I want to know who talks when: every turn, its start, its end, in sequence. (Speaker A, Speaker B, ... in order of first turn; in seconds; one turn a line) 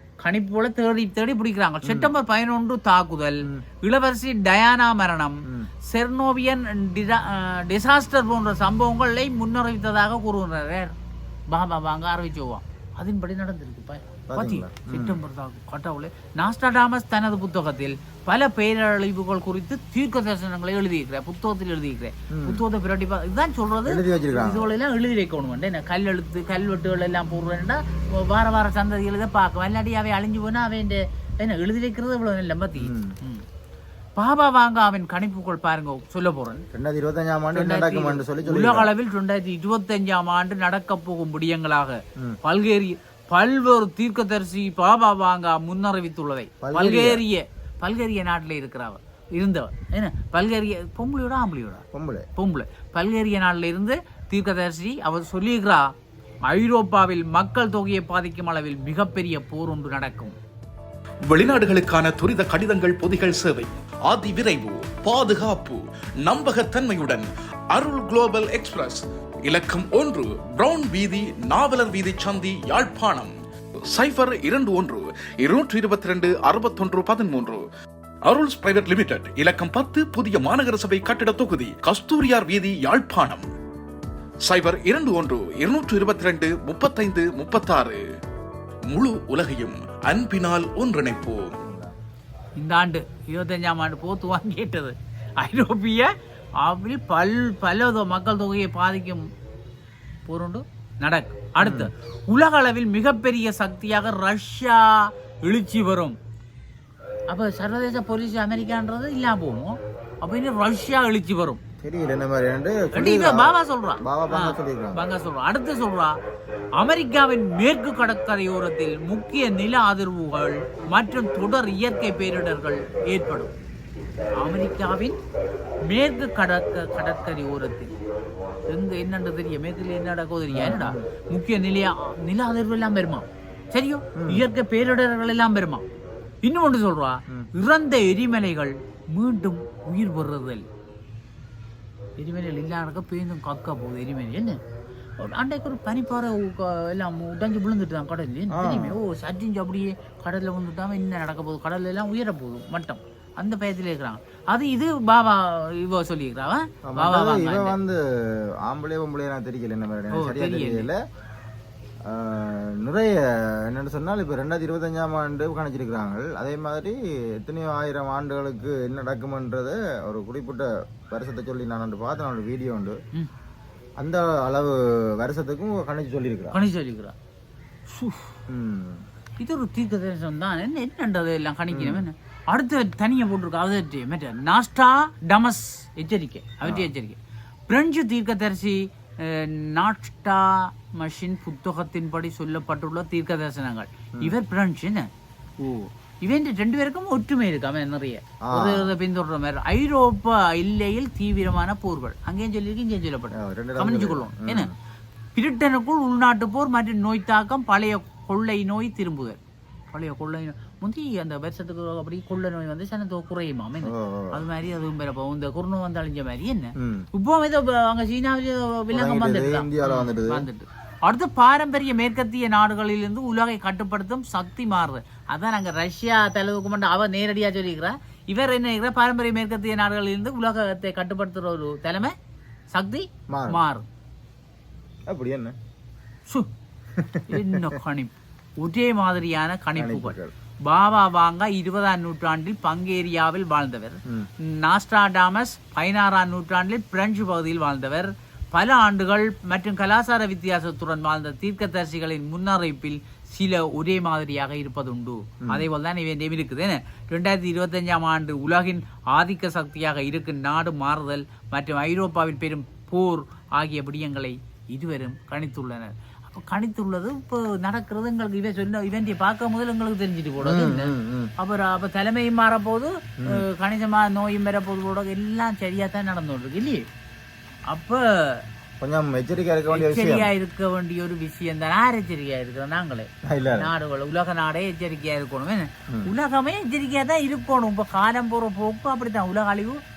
Speaker A: 0.2-11.0
Speaker B: 1.8-2.1
Speaker A: 11.5-33.4
Speaker B: 14.3-15.2
Speaker B: 22.3-22.6
Speaker B: 23.9-24.7
Speaker B: 32.8-33.1
Speaker A: 34.2-36.6
Speaker B: 36.7-38.9
Speaker A: 37.5-51.9
Speaker B: 46.6-47.2
Speaker B: 51.9-52.3
Speaker A: 52.4-55.9
Speaker A: 56.5-60.4
Speaker C: 61.3-73.3
Speaker C: 73.9-77.6
Speaker C: 78.2-83.5
Speaker C: 84.5-88.0
Speaker C: 88.9-91.5
Speaker B: 91.6-91.9
Speaker A: 92.6-99.2
Speaker A: 100.3-106.2
Speaker B: 101.6-101.9
Speaker A: 107.3-111.6
Speaker B: 111.8-115.0
Speaker A: 113.0-116.1
Speaker A: 116.8-123.5
Speaker A: 124.4-125.2
Speaker A: 125.9-127.9
Speaker A: 128.7-135.8
Speaker B: 130.5-131.1
Speaker B: 134.2-134.5
Speaker A: 136.4-140.6
Speaker A: 142.2-144.6
Speaker A: 145.2-157.8
Speaker B: 148.5-149.0
Speaker B: 156.9-161.0
Speaker A: 160.1-160.9
Speaker B: 162.1-173.0
Speaker B: 174.0-176.6
Speaker A: 176.5-177.2
Speaker A: 177.9-178.3
Speaker B: 178.5-179.0
Speaker A: 179.4-195.1
Speaker B: 181.7-182.1
Speaker B: 186.6-186.9
Speaker A: 195.6-204.7
Speaker B: 198.4-198.9
Speaker B: 203.3-204.7
Speaker A: 205.3-209.4
Speaker A: 209.9-232.1
Speaker B: 213.8-214.5
Speaker B: 216.8-217.1
Speaker B: 218.9-220.5
Speaker A: 232.7-233.8
Speaker B: 233.3-233.6
Speaker B: 235.1-235.6
Speaker B: 237.0-237.7
Speaker A: 237.3-276.8
Speaker B: 239.8-240.3
Speaker B: 270.4-271.3
Speaker A: 277.7-278.4
Speaker B: 278.8-280.3
Speaker A: 279.7-289.8
Speaker B: 283.2-283.7